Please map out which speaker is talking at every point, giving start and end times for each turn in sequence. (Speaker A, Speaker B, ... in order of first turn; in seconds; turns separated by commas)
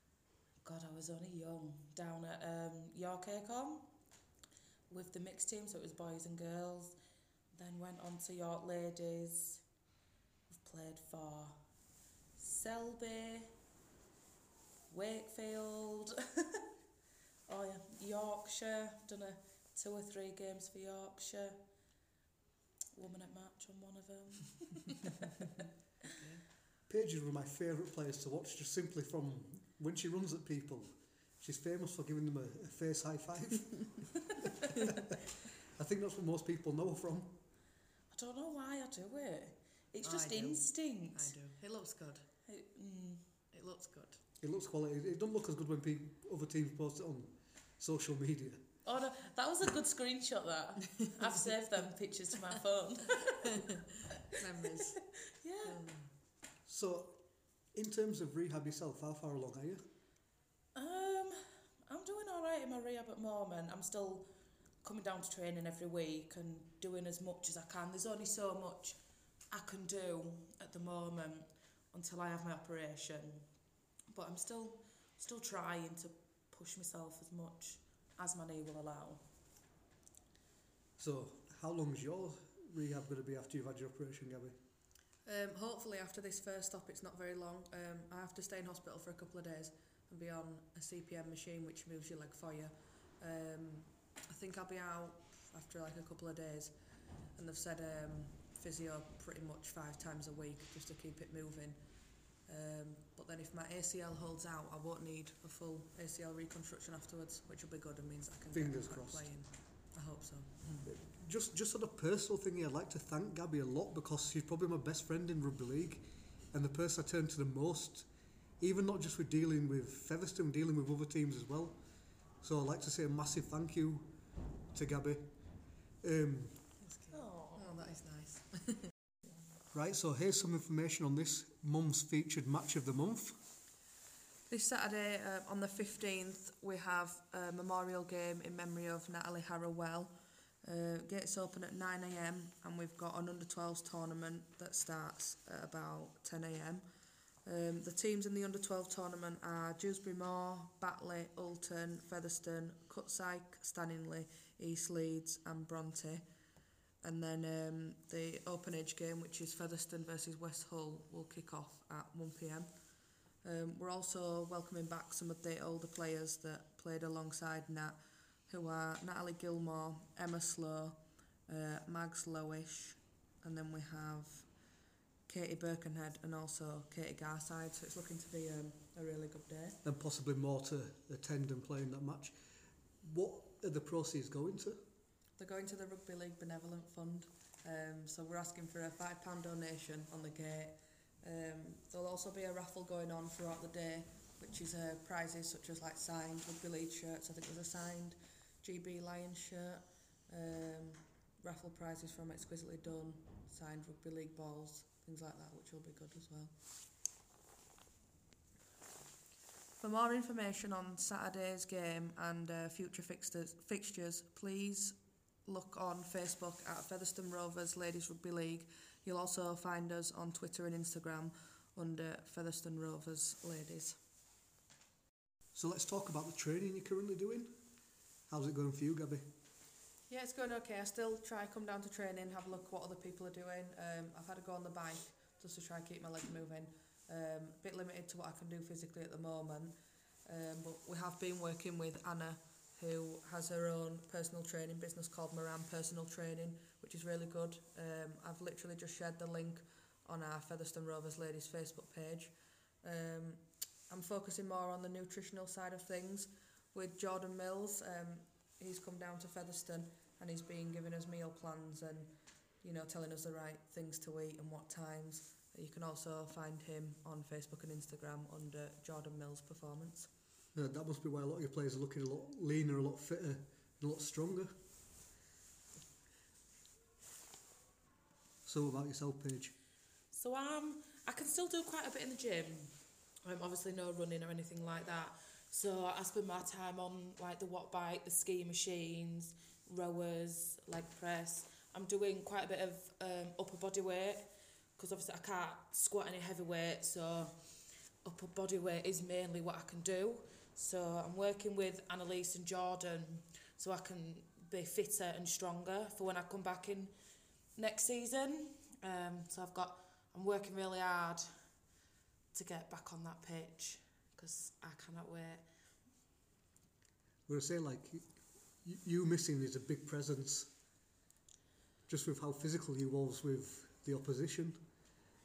Speaker A: 0.6-3.9, Speaker A: 4.9-7.0, Speaker A: 7.5-9.6, Speaker A: 10.5-11.6, Speaker A: 12.4-13.5, Speaker A: 14.9-16.6, Speaker A: 17.5-21.6, Speaker A: 22.9-25.1, Speaker B: 26.2-26.4, Speaker C: 26.9-34.3, Speaker C: 35.8-37.4, Speaker A: 38.1-41.4, Speaker B: 40.0-42.3, Speaker A: 42.5-43.3, Speaker B: 43.5-44.2, Speaker C: 44.4-48.7, Speaker A: 48.9-53.6, Speaker B: 54.3-55.0, Speaker A: 55.4-55.8, Speaker B: 55.6-56.1, Speaker C: 56.7-59.8, Speaker A: 60.8-64.3, Speaker A: 64.8-73.5, Speaker A: 74.1-79.2, Speaker C: 81.0-84.6, Speaker B: 85.2-110.9, Speaker C: 108.5-109.4, Speaker C: 110.8-126.8, Speaker B: 126.8-128.9, Speaker A: 127.1-127.7, Speaker C: 129.7-133.4, Speaker B: 134.5-146.9, Speaker B: 147.4-156.3, Speaker B: 157.0-179.8, Speaker C: 179.8-182.4, Speaker C: 183.0-184.8, Speaker B: 185.4-206.5, Speaker B: 209.7-224.0, Speaker C: 225.5-227.6, Speaker C: 228.3-229.3, Speaker B: 230.1-270.1, Speaker C: 270.5-274.6, Speaker C: 278.4-279.5, Speaker A: 280.1-306.9, Speaker A: 307.6-311.4, Speaker A: 312.3-315.4, Speaker C: 317.3-320.5, Speaker C: 321.9-324.6